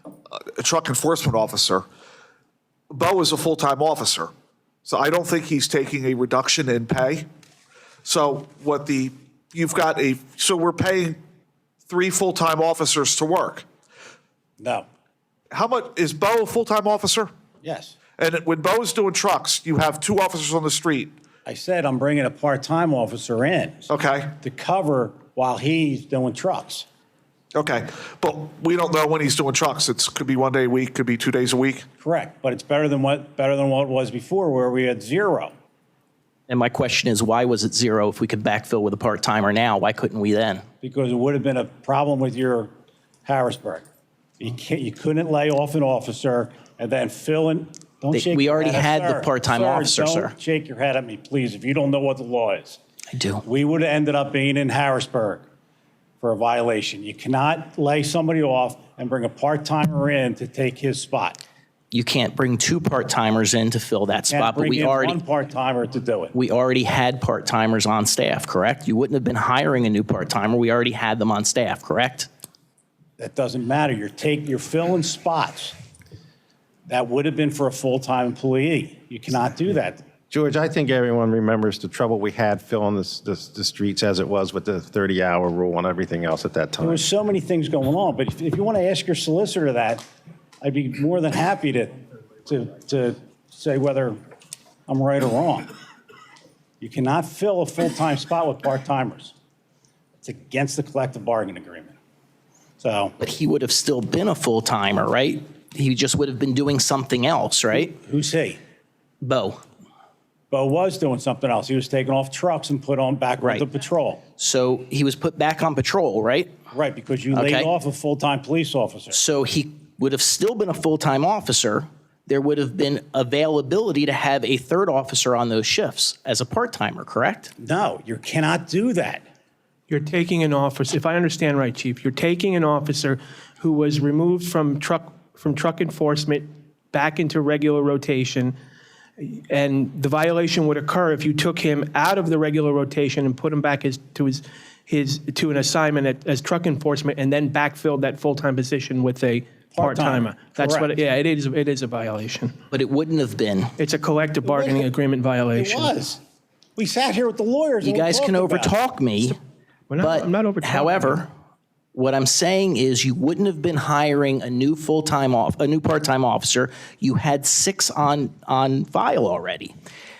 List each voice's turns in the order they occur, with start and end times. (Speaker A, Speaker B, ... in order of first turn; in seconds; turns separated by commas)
Speaker A: 0.6-1.8, Speaker A: 2.9-4.3, Speaker A: 4.8-7.2, Speaker A: 8.0-11.2, Speaker A: 11.9-13.7, Speaker B: 14.6-14.8, Speaker A: 15.5-17.3, Speaker B: 17.6-17.9, Speaker A: 18.2-21.1, Speaker B: 21.4-23.9, Speaker A: 23.9-24.3, Speaker B: 24.4-26.9, Speaker A: 27.5-31.8, Speaker B: 32.0-35.5, Speaker C: 36.5-40.6, Speaker B: 40.8-42.7, Speaker B: 43.2-43.8, Speaker B: 44.4-52.8, Speaker C: 48.1-50.3, Speaker C: 53.1-53.4, Speaker B: 53.4-55.4, Speaker B: 56.2-61.4, Speaker C: 61.9-65.2, Speaker B: 64.3-66.3, Speaker C: 66.3-72.3, Speaker B: 73.2-75.7, Speaker B: 76.9-80.0, Speaker D: 80.3-87.0, Speaker B: 86.8-90.0, Speaker B: 90.6-91.9, Speaker B: 92.5-94.2, Speaker B: 94.9-95.7, Speaker B: 96.8-99.3, Speaker B: 100.2-101.9, Speaker B: 102.8-103.1, Speaker C: 103.2-107.9, Speaker B: 107.7-108.6, Speaker C: 109.2-109.6, Speaker B: 110.5-114.2, Speaker C: 113.4-113.7, Speaker C: 114.4-116.5, Speaker B: 116.7-119.2, Speaker C: 117.3-117.7, Speaker C: 119.1-127.5, Speaker B: 127.6-129.2, Speaker E: 129.9-138.5, Speaker E: 139.2-152.5, Speaker B: 149.7-150.9, Speaker C: 152.7-153.7, Speaker E: 153.8-155.9, Speaker B: 154.4-154.8, Speaker B: 155.5-156.2, Speaker B: 156.8-158.8, Speaker C: 157.8-159.3, Speaker E: 159.9-161.2, Speaker C: 160.0-161.3, Speaker C: 161.9-169.7